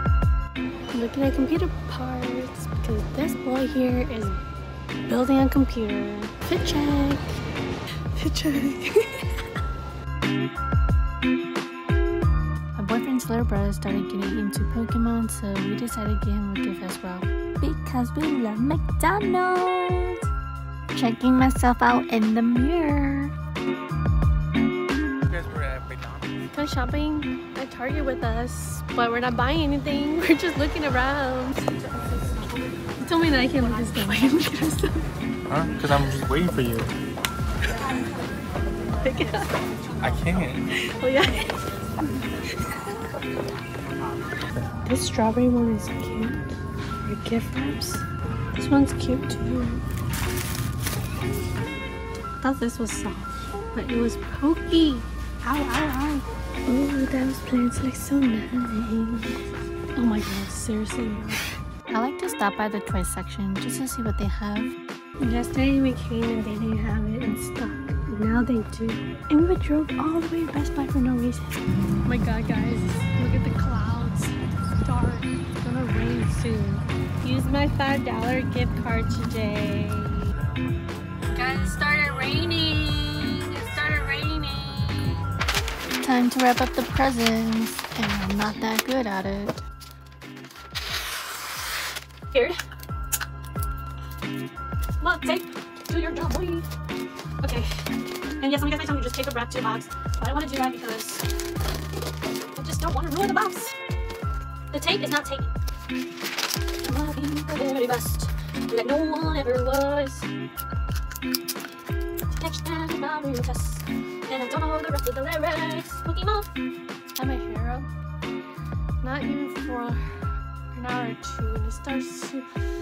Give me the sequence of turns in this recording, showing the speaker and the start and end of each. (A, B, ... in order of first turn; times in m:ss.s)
0:00.9-0:04.4 A
0:05.0-0:07.4 A
0:08.1-0:09.4 A
0:12.8-0:20.2 A
0:21.0-0:23.3 A
0:25.3-0:26.3 B
0:26.5-0:31.7 A
0:33.0-0:35.0 A
0:35.5-0:36.9 B
0:39.0-0:39.5 A
0:40.0-0:40.6 B
0:40.9-0:41.6 A
0:44.8-0:49.8 A
0:52.4-0:59.4 A
0:59.9-1:20.3 A
1:21.2-1:25.2 A
1:26.0-1:29.6 A
1:32.3-1:32.6 A
1:35.0-1:36.7 A
1:37.4-1:37.9 A
1:38.4-1:41.3 A
1:42.5-1:43.7 A
1:44.7-1:45.5 A
1:46.8-1:50.3 A
1:52.3-1:56.5 A
1:57.1-1:57.9 A
1:59.0-2:00.1 A
2:00.7-2:02.5 A